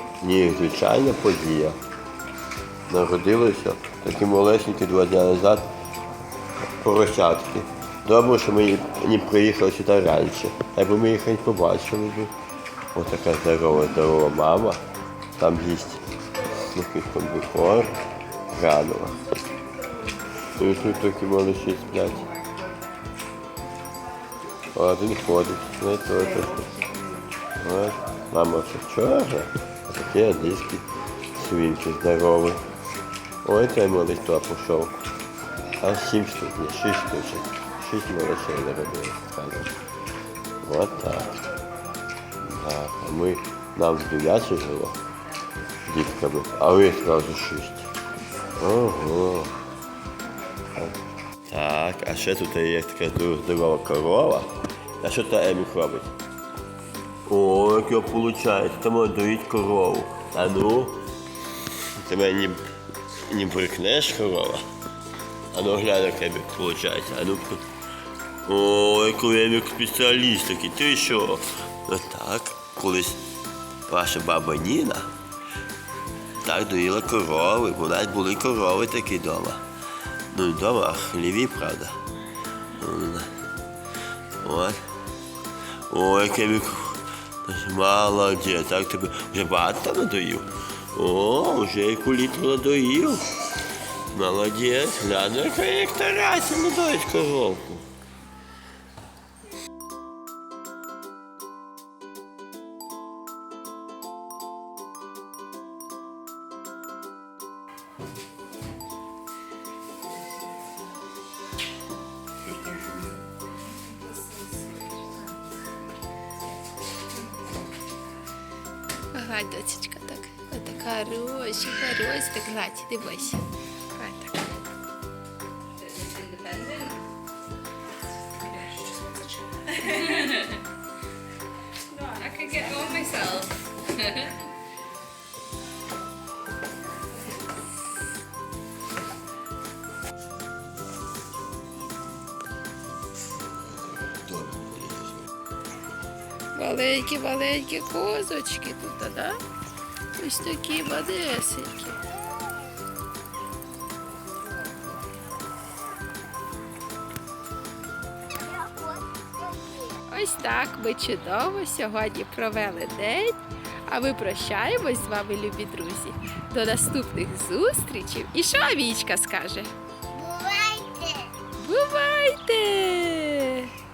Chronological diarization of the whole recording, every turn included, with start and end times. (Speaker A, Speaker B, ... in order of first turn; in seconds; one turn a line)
Speaker A: 0.2-1.8
Speaker A: 2.9-5.7
Speaker A: 6.8-12.3
Speaker A: 12.9-14.8
Speaker A: 15.4-16.0
Speaker A: 16.6-17.9
Speaker A: 18.5-19.3
Speaker A: 20.5-22.3
Speaker A: 24.7-26.8
Speaker A: 27.6-32.6
Speaker A: 33.4-34.9
Speaker A: 35.8-39.7
Speaker A: 40.6-41.4
Speaker A: 42.4-45.0
Speaker A: 45.8-47.9
Speaker A: 48.6-49.5
Speaker A: 50.7-56.1
Speaker A: 57.2-61.0
Speaker A: 62.0-62.6
Speaker A: 63.3-64.6
Speaker A: 65.5-67.6
Speaker A: 68.4-73.2
Speaker A: 73.9-75.1
Speaker A: 76.4-79.6
Speaker A: 80.3-82.0
Speaker A: 82.7-83.3
Speaker A: 84.4-84.8
Speaker A: 85.9-93.3
Speaker A: 94.1-97.9
Speaker B: 119.1-123.4
Speaker B: 123.9-124.5
Speaker C: 125.8-127.0
Speaker C: 130.0-130.3
Speaker C: 132.2-134.4
Speaker A: 143.7-145.2
Speaker B: 146.6-149.4
Speaker B: 150.2-152.0
Speaker C: 158.6-159.0
Speaker B: 160.0-169.7
Speaker C: 170.1-171.3
Speaker B: 171.4-173.7